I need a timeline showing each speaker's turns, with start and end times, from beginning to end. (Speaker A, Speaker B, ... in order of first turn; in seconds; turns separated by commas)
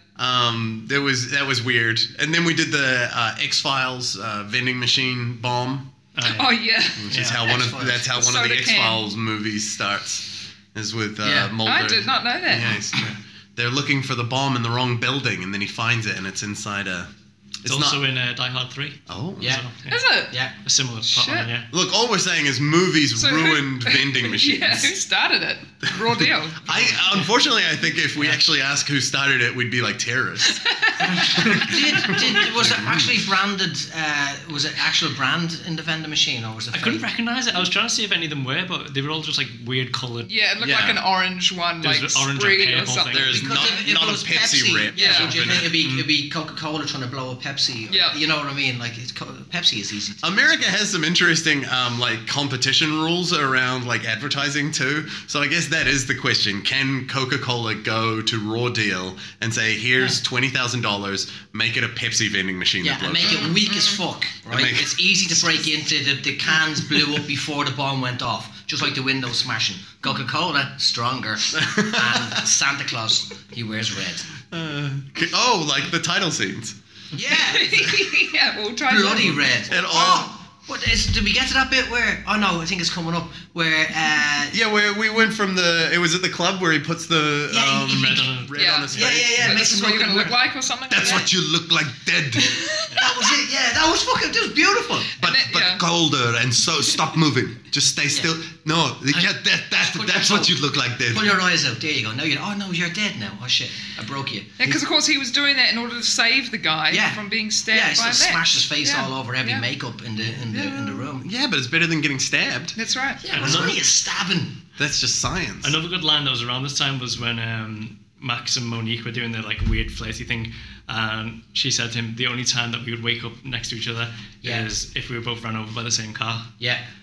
Speaker A: 0.2-5.9, Speaker B: 6.1-6.5, Speaker C: 6.2-9.0, Speaker A: 7.0-17.1, Speaker B: 7.1-7.4, Speaker D: 7.4-8.1, Speaker D: 11.2-11.6, Speaker C: 11.6-12.8, Speaker A: 17.6-18.0, Speaker B: 17.6-21.7, Speaker A: 19.1-19.6, Speaker C: 19.9-20.4, Speaker D: 20.3-20.5, Speaker C: 21.1-21.5, Speaker A: 21.7-24.9, Speaker C: 23.2-26.7, Speaker A: 25.9-30.6, Speaker B: 26.6-27.3, Speaker C: 30.4-31.6, Speaker B: 31.0-31.7, Speaker A: 31.3-33.2, Speaker D: 31.4-37.0, Speaker B: 36.7-40.3, Speaker C: 40.3-43.7, Speaker A: 40.6-41.0, Speaker B: 41.8-43.5, Speaker A: 43.1-45.8, Speaker D: 43.3-50.4, Speaker C: 44.9-45.4, Speaker B: 45.8-46.0, Speaker C: 47.9-48.2, Speaker A: 50.2-63.5, Speaker D: 62.8-74.3, Speaker C: 63.2-64.0, Speaker A: 64.5-65.6, Speaker A: 71.5-72.4, Speaker A: 74.5-76.8, Speaker D: 77.1-78.0, Speaker C: 77.3-79.5, Speaker D: 78.9-84.6, Speaker A: 79.7-80.3, Speaker A: 84.5-89.6, Speaker D: 87.5-88.3, Speaker B: 87.8-88.6, Speaker C: 88.5-91.3, Speaker D: 88.9-90.4, Speaker E: 90.9-92.6, Speaker C: 92.3-93.3, Speaker D: 92.9-95.2, Speaker C: 95.1-95.8, Speaker A: 95.2-95.8, Speaker E: 95.8-97.3, Speaker A: 96.9-101.3, Speaker D: 99.1-104.8, Speaker E: 99.2-101.0, Speaker C: 104.6-109.7, Speaker D: 106.9-111.3, Speaker A: 110.3-112.8, Speaker C: 112.8-113.2, Speaker D: 113.2-114.6, Speaker B: 113.3-113.8, Speaker A: 113.3-113.8, Speaker A: 114.8-115.8, Speaker B: 115.6-126.6, Speaker D: 124.4-124.7